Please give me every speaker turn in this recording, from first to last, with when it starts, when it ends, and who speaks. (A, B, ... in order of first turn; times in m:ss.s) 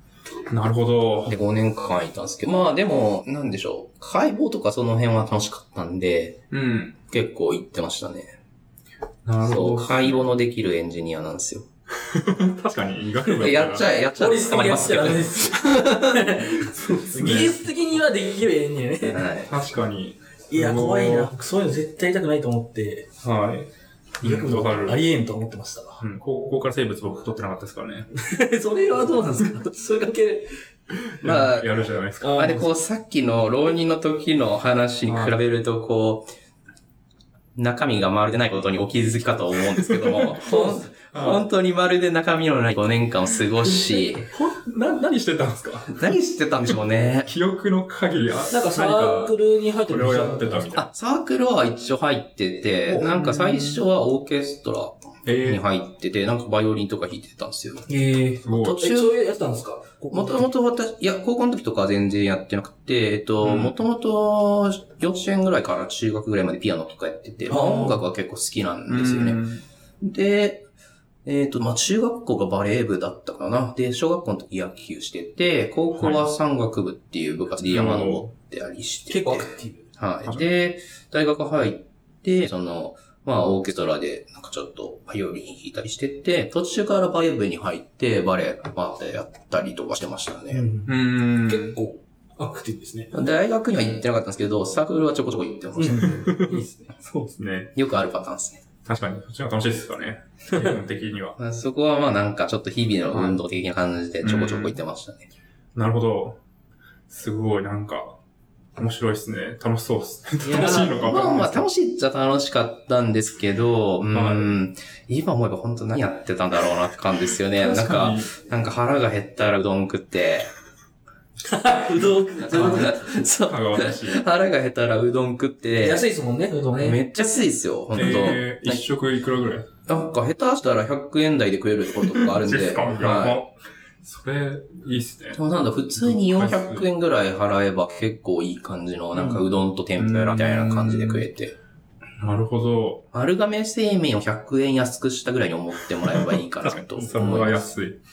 0:00.5-0:01.4 A
0:01.3-0:06.4 B
0:06.5-0:07.0 A
0:07.1-0:08.3 B
0:09.3-0:10.4 A
0:09.4-0:11.7 B
0:12.0-0:13.9 A
0:13.4-0:16.5 B
0:14.2-0:19.4 C
0:17.1-0:17.6 A
0:19.1-0:19.5 B
0:19.4-0:21.3 A
0:20.5-0:23.1 C
0:23.2-0:25.1 A
0:24.2-0:26.0 C
0:26.0-0:28.1 A
0:28.2-0:30.5 C
0:31.1-0:32.5 A
0:31.2-0:36.3 B
0:32.2-0:32.7 C
0:35.1-0:35.4 A
0:37.6-0:44.3 B
0:39.7-0:40.5 A
0:40.4-0:40.9 C
0:41.1-0:41.4 A
0:44.3-0:46.1 A
0:45.9-0:47.3 B
0:47.3-0:49.3 A
0:48.5-0:50.7 C
0:49.9-0:50.9 A
0:50.7-0:57.9 B
0:52.9-0:53.1 C
0:53.0-0:53.8 A
0:55.2-0:55.6 A
0:57.9-1:00.5 C
0:58.4-0:58.9 A
0:58.7-0:59.1 B
1:00.1-1:09.5 B
1:03.4-1:03.8 A
1:07.5-1:08.0 C
1:08.9-1:09.6 A
1:10.0-1:10.7 B
1:11.2-1:30.7 B
1:16.0-1:16.3 A
1:17.6-1:18.3 A
1:19.1-1:19.8 C
1:30.5-1:30.9 C
1:30.9-1:31.8 A
1:31.4-1:33.1 C
1:33.1-1:36.3 B
1:35.8-1:37.0 C
1:36.0-1:37.7 A
1:37.8-1:38.6 B
1:38.8-1:41.4 A
1:41.4-1:45.3 B
1:43.1-1:43.4 A
1:44.2-1:44.8 A
1:45.8-1:46.4 A
1:47.1-1:48.2 A
1:48.8-1:51.7 A
1:50.4-2:00.5 B
1:50.5-1:50.9 C
1:54.1-1:54.5 A
1:57.6-1:58.3 A
2:01.4-2:03.2 C
2:02.4-2:06.0 B
2:03.4-2:04.2 A
2:05.8-2:07.0 C
2:06.8-2:08.8 B
2:07.9-2:09.7 A
2:09.9-2:13.4 B
2:12.1-2:15.4 A
2:15.3-2:21.6 B
2:16.0-2:16.9 A
2:19.2-2:19.4 C
2:20.0-2:21.3 A
2:22.2-2:23.1 A
2:23.1-2:27.7 B
2:26.6-2:28.0 A